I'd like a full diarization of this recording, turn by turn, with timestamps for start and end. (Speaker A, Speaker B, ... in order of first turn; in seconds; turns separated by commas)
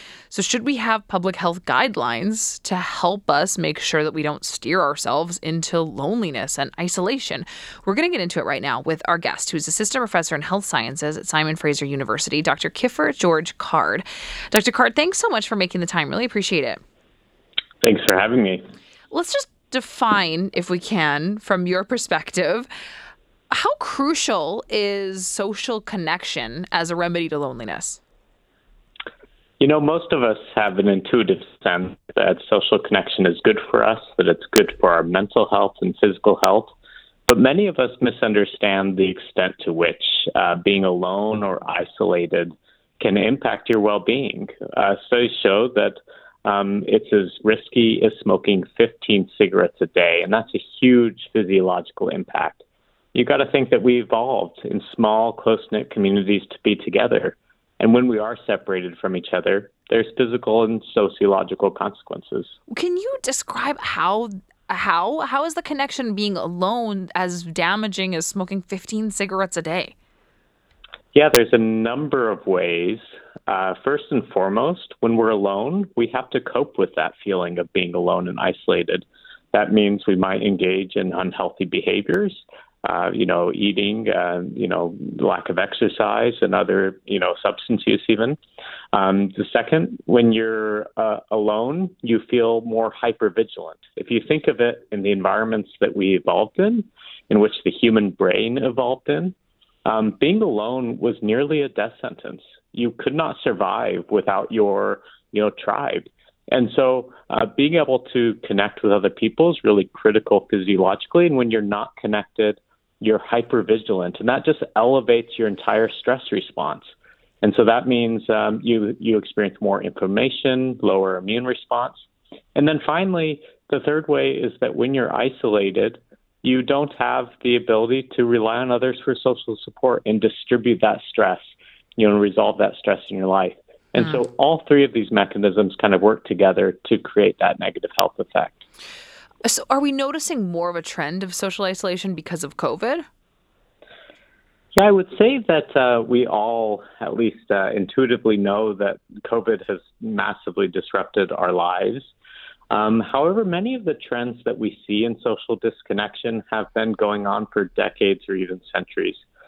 Speaker A: 0.3-16.8, Speaker B: 17.8-18.6, Speaker A: 19.1-22.7, Speaker A: 23.5-28.0, Speaker B: 29.6-36.7, Speaker B: 37.3-62.5, Speaker A: 62.7-69.9, Speaker B: 71.1-88.4, Speaker B: 88.9-99.3, Speaker B: 99.8-116.9, Speaker B: 117.4-122.0, Speaker B: 122.5-138.6, Speaker A: 139.4-143.0, Speaker B: 144.8-152.1, Speaker B: 152.7-159.2